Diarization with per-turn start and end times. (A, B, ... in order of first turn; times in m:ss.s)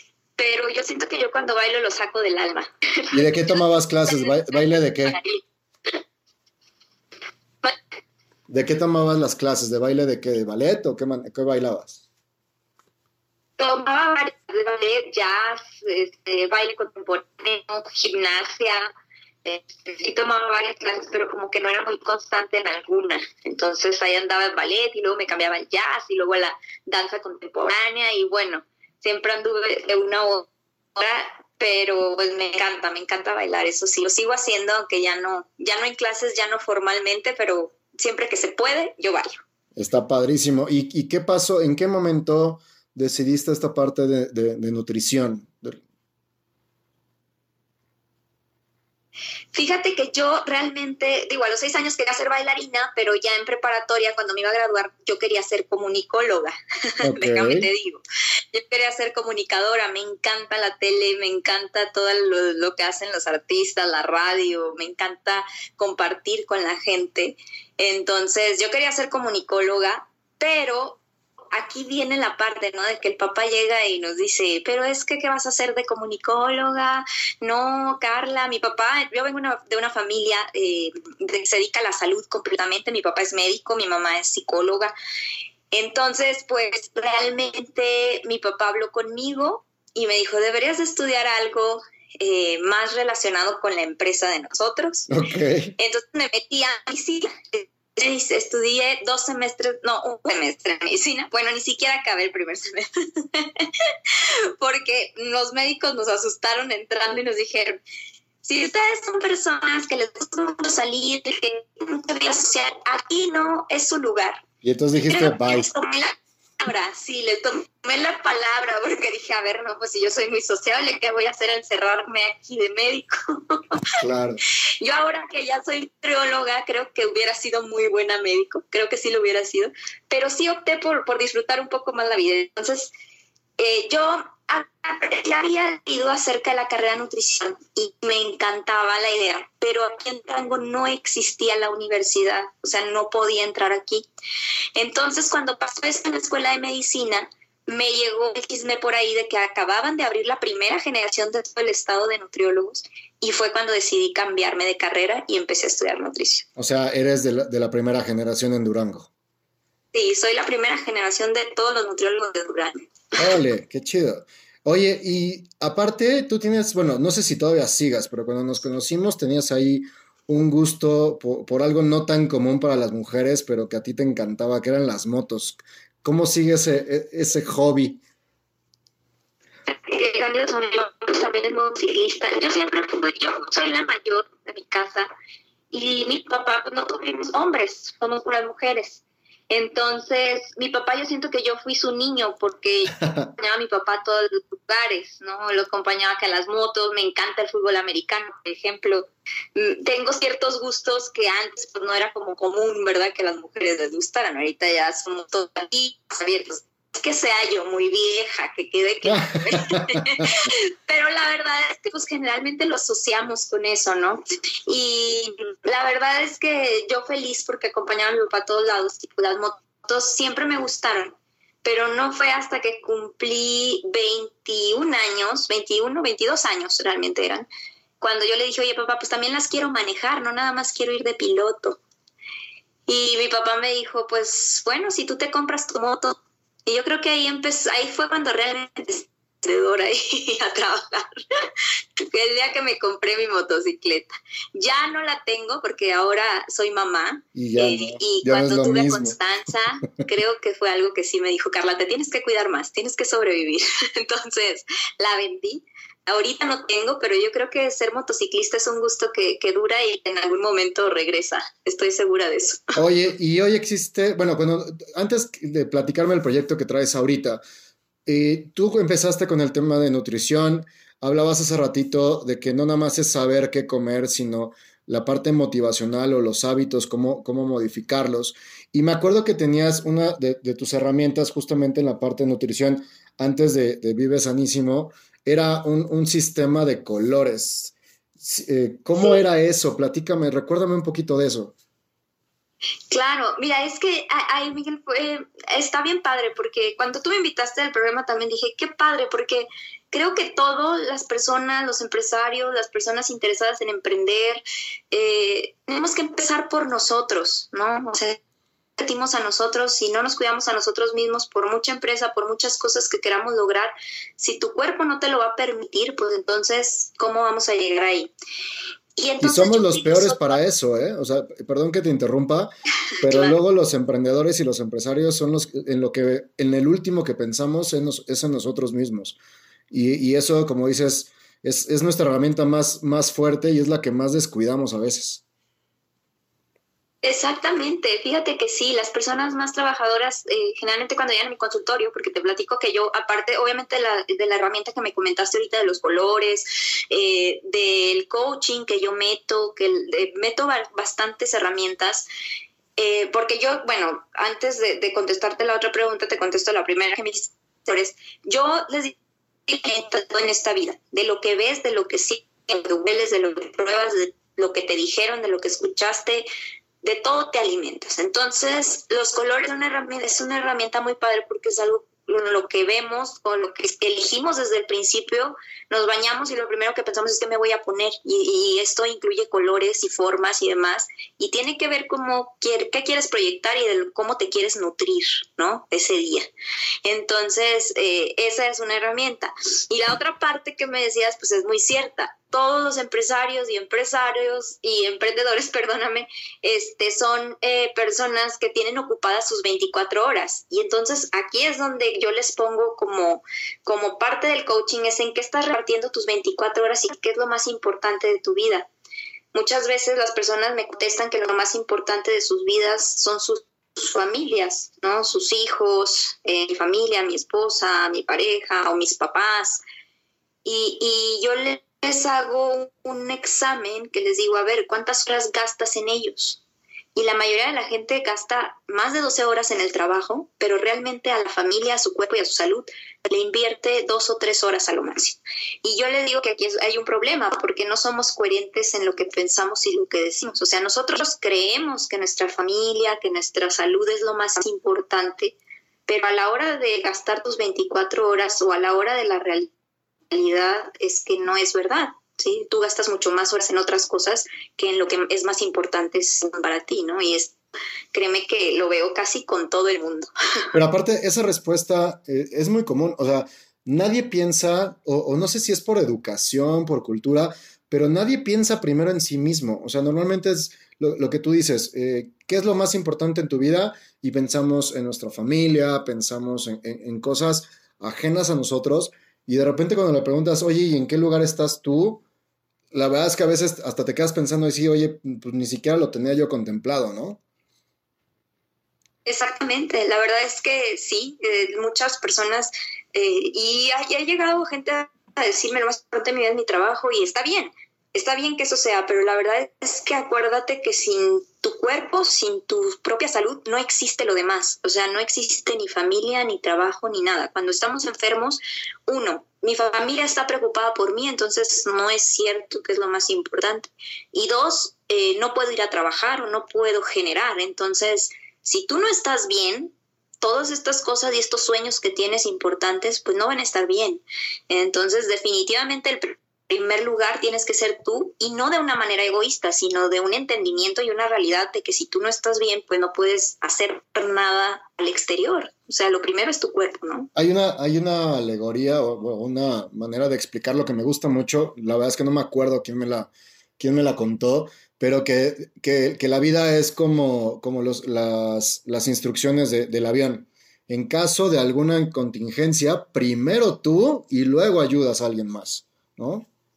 0:00.4-0:03.1 A
0:03.1-0:05.2 B
0:04.1-0:05.4 A
0:08.5-0:12.0 B
0:13.6-0:18.9 A
0:19.4-0:39.4 A
0:39.8-0:45.8 B
0:49.5-1:11.0 A
0:57.0-0:57.7 B
1:11.5-1:24.9 A
1:25.7-1:35.1 A
1:35.1-1:35.7 B
1:35.8-1:47.8 A
1:48.4-1:54.4 A
1:54.6-1:55.7 B
1:55.1-2:03.8 A
2:04.0-2:04.4 B
2:04.8-2:12.9 A
2:13.6-2:24.0 A
2:24.8-2:36.4 A
2:36.6-2:39.1 B
2:39.9-2:42.9 A
2:43.2-2:58.0 B
2:59.7-3:05.1 A
3:05.7-3:47.5 A
3:29.0-3:30.2 B
3:48.0-3:51.8 A
3:52.9-4:01.1 A
4:02.0-4:22.7 A
4:07.3-4:09.2 B
4:22.8-4:27.4 B
4:28.0-4:51.5 B
4:52.9-5:08.2 A
5:08.8-5:18.1 A
5:19.0-5:20.4 A
5:19.2-5:29.2 B
5:23.0-5:23.4 A
5:29.7-5:35.2 B
5:37.0-5:52.0 A
5:52.8-5:58.9 A
5:59.5-6:06.3 A
6:06.8-6:26.3 A
6:26.8-6:48.7 A
6:49.3-6:59.6 A
7:00.4-7:06.4 A
7:06.9-7:25.4 A
7:25.9-7:29.5 A
7:30.1-7:37.4 A
7:37.9-7:40.1 A
7:40.5-8:02.0 B
8:02.7-8:07.2 B
8:09.0-8:57.1 A
8:57.2-9:16.3 B